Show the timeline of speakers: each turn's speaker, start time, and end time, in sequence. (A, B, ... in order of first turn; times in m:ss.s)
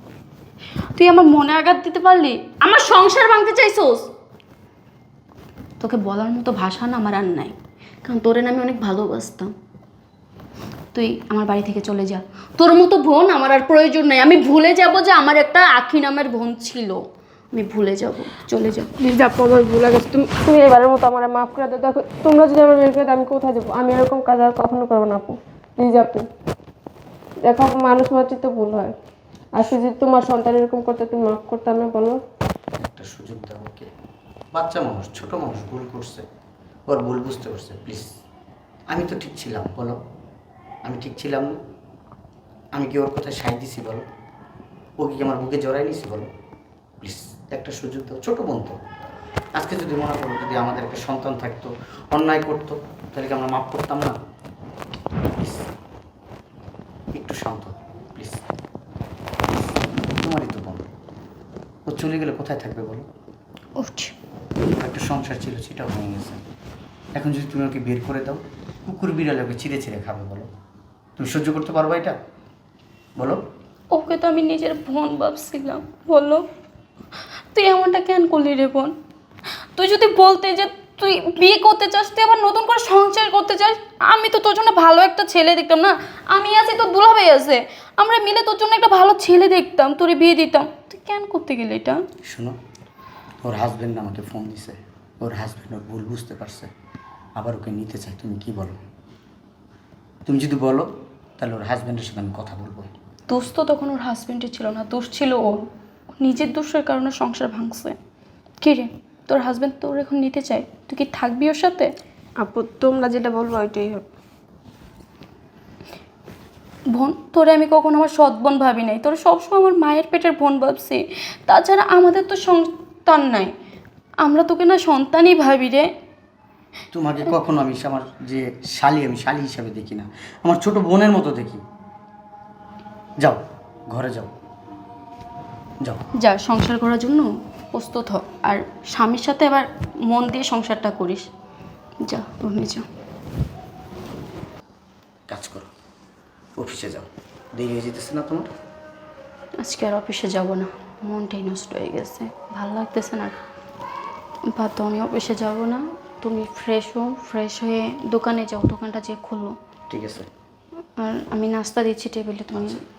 0:00.9-0:04.0 A
0:05.8-0:09.5 A
0:10.9-0:17.0 A
0:17.5-0:18.9 A
0:19.0-0:26.2 B
0:27.4-0:28.9 B
0:29.5-0:32.2 B
0:32.8-0:33.9 C
0:34.5-0:36.2 C
0:36.9-0:38.0 C
0:38.9-0:40.0 C
0:40.8-0:41.6 C
0:42.7-0:44.0 C
0:45.0-0:46.3 C
0:47.0-0:48.8 C
0:49.5-0:54.2 C
0:55.4-0:55.7 C
0:57.1-0:58.4 C
1:00.2-1:00.9 C
1:01.9-1:03.0 C
1:03.8-1:04.1 A
1:04.6-1:06.4 C
1:07.1-1:10.5 C
1:11.2-1:12.2 C
1:13.9-1:16.4 A
1:17.5-1:18.9 A
1:19.8-1:32.0 A
1:32.2-1:32.6 C
1:33.4-1:36.7 C
1:37.4-1:38.8 C
1:40.2-1:42.9 C
1:43.3-1:45.7 A
1:46.2-1:48.0 A
1:48.6-1:51.9 A
1:52.4-1:54.0 B
1:56.9-2:03.5 A
2:04.2-2:05.9 A
2:06.9-2:11.6 C
2:13.2-2:14.3 C
2:16.2-2:21.3 A
2:22.0-2:22.8 A
2:25.3-2:25.7 C
2:26.6-2:28.5 C
2:29.6-2:33.3 A
2:34.4-2:39.5 A
2:39.9-2:40.3 C
2:41.0-2:42.8 A
2:42.5-2:42.8 C